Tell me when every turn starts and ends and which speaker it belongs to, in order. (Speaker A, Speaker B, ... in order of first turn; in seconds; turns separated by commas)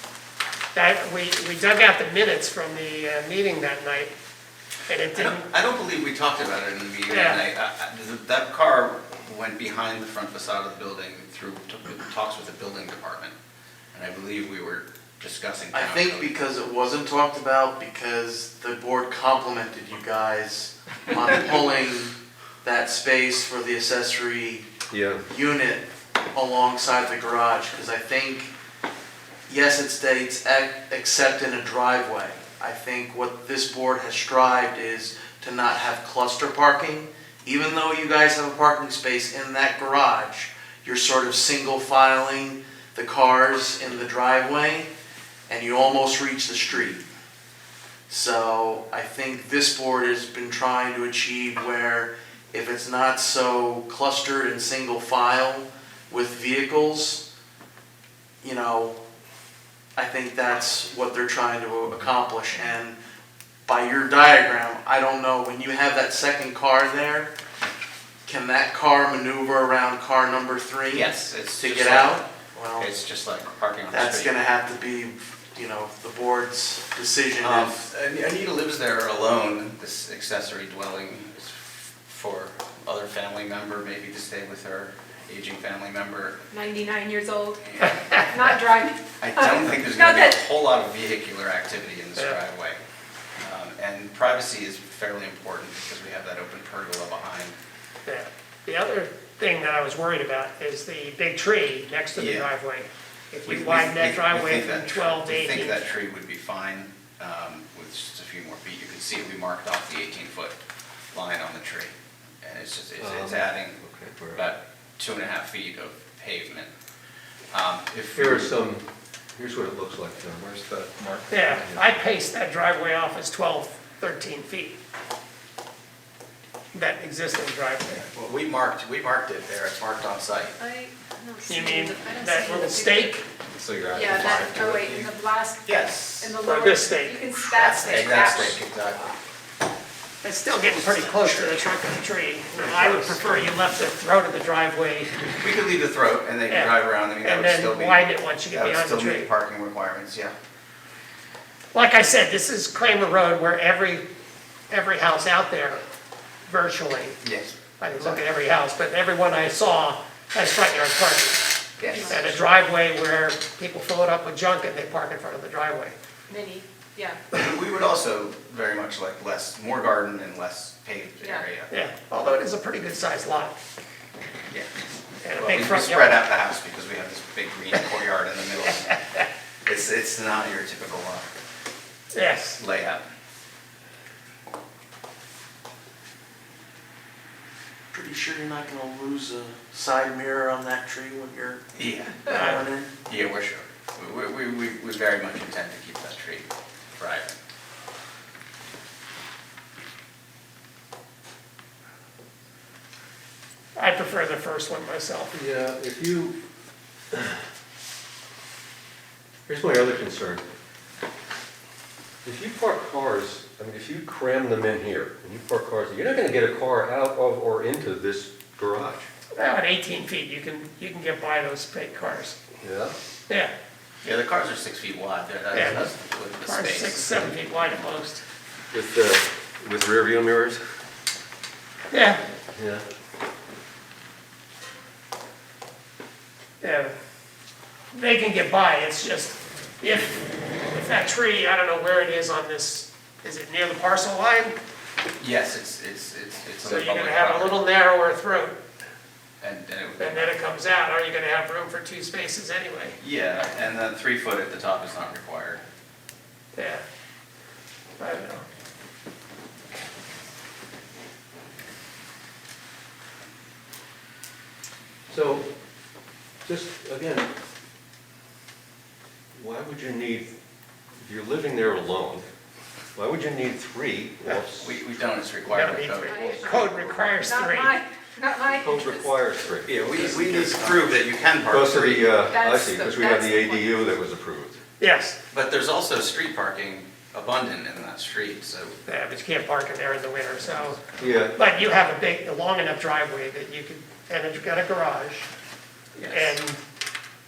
Speaker A: 0.7-4.1, Speaker A: 4.9-5.5, Speaker B: 5.2-13.3, Speaker A: 7.1-7.4, Speaker B: 13.9-16.3, Speaker C: 15.7-24.7, Speaker D: 24.9-25.2, Speaker C: 25.3-28.5, Speaker C: 29.5-44.9, Speaker C: 45.5-47.0, Speaker C: 48.1-57.2, Speaker C: 58.4-59.0, Speaker C: 60.0-63.0, Speaker C: 63.6-67.3, Speaker C: 68.2-72.9, Speaker B: 70.9-74.3, Speaker C: 73.9-77.8, Speaker B: 77.4-86.4, Speaker E: 86.5-90.4, Speaker B: 87.6-88.1, Speaker B: 89.2-92.8, Speaker B: 93.4-97.5, Speaker A: 98.0-105.8, Speaker B: 102.2-102.5, Speaker B: 103.5-110.5, Speaker B: 111.1-113.8, Speaker D: 113.0-114.5, Speaker B: 114.3-116.7, Speaker B: 117.5-118.5, Speaker D: 118.1-118.8, Speaker D: 119.3-121.8, Speaker A: 121.3-124.8, Speaker A: 126.7-128.1, Speaker B: 128.1-130.6, Speaker E: 130.6-133.2, Speaker A: 131.5-133.2, Speaker B: 133.5-135.1, Speaker E: 133.9-138.6, Speaker B: 135.6-136.4, Speaker A: 136.4-138.2, Speaker B: 137.5-139.2, Speaker A: 140.2-145.3, Speaker B: 140.6-141.6, Speaker B: 142.6-143.4, Speaker B: 145.4-150.3, Speaker A: 146.5-149.3, Speaker A: 151.7-154.1, Speaker A: 154.7-155.8, Speaker A: 156.4-157.2, Speaker B: 157.2-158.2, Speaker A: 157.8-165.9, Speaker B: 161.8-162.1, Speaker E: 161.8-162.4, Speaker E: 166.3-167.2, Speaker B: 167.3-171.7, Speaker A: 171.7-173.6, Speaker A: 175.2-176.2, Speaker B: 175.4-179.0, Speaker B: 179.7-181.3, Speaker A: 182.1-182.6, Speaker B: 182.6-183.0, Speaker C: 187.9-191.7, Speaker B: 191.7-197.3, Speaker C: 192.2-192.9, Speaker A: 192.3-192.6, Speaker A: 203.8-205.3, Speaker D: 205.3-206.3, Speaker D: 207.1-207.4, Speaker D: 209.5-210.4, Speaker D: 212.2-219.1, Speaker A: 219.3-222.4, Speaker D: 222.6-222.9, Speaker B: 224.0-227.1, Speaker A: 225.5-225.9, Speaker A: 226.4-228.2, Speaker D: 228.7-230.6, Speaker A: 231.9-232.2, Speaker D: 232.5-232.8, Speaker A: 236.6-236.9, Speaker A: 237.9-244.6, Speaker B: 245.2-247.6, Speaker A: 246.6-248.6, Speaker B: 249.4-250.3, Speaker A: 250.0-253.0, Speaker B: 253.0-255.6, Speaker A: 256.6-256.8, Speaker A: 258.0-258.4, Speaker D: 265.1-265.5, Speaker D: 266.4-267.3, Speaker D: 269.3-270.3, Speaker D: 271.0-272.3, Speaker D: 272.9-274.7, Speaker B: 274.6-276.9, Speaker A: 275.5-277.8, Speaker E: 276.1-279.1, Speaker D: 278.5-279.7, Speaker B: 279.6-282.2, Speaker C: 279.9-280.9, Speaker D: 281.5-284.6, Speaker E: 282.2-283.8, Speaker A: 284.8-285.2, Speaker B: 285.3-288.8, Speaker A: 288.9-290.8, Speaker D: 291.0-291.3, Speaker A: 291.3-295.3, Speaker A: 295.9-296.6, Speaker B: 296.0-296.4